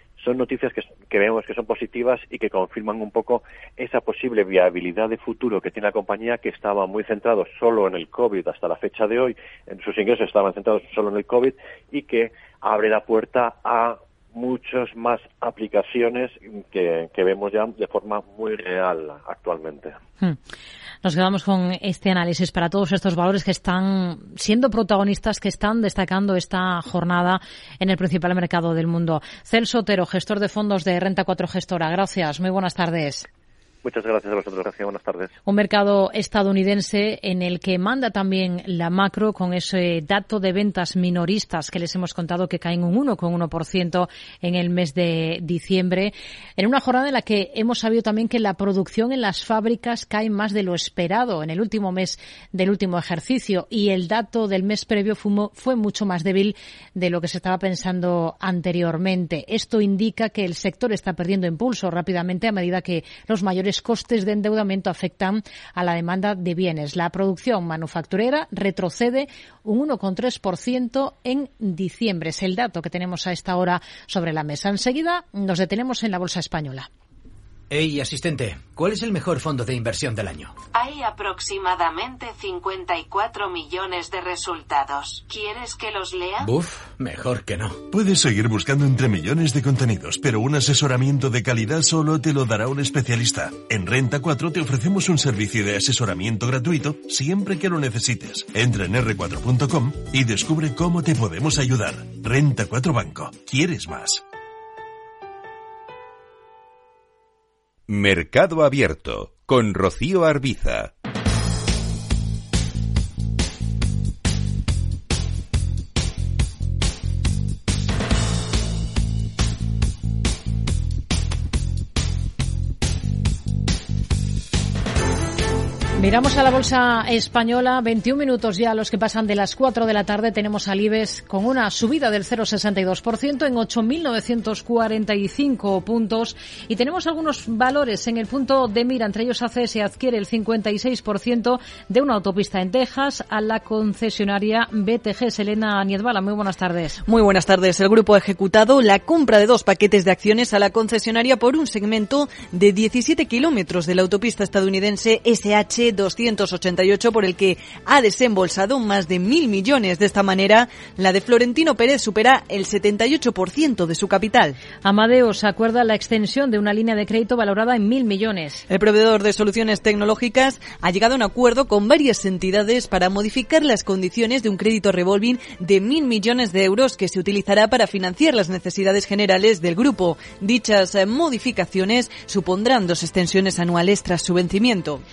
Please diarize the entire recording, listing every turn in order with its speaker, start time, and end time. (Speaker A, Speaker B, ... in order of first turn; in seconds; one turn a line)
Speaker A: 0.2-19.9
Speaker B: 21.0-33.3
Speaker A: 33.8-35.3
Speaker B: 35.5-76.9
Speaker C: 77.7-80.5
Speaker D: 80.7-86.5
Speaker C: 86.4-87.8
Speaker E: 87.9-104.2
Speaker F: 107.9-110.9
Speaker B: 126.0-147.0
Speaker G: 147.1-164.6
Speaker B: 164.8-168.6
Speaker G: 168.7-185.0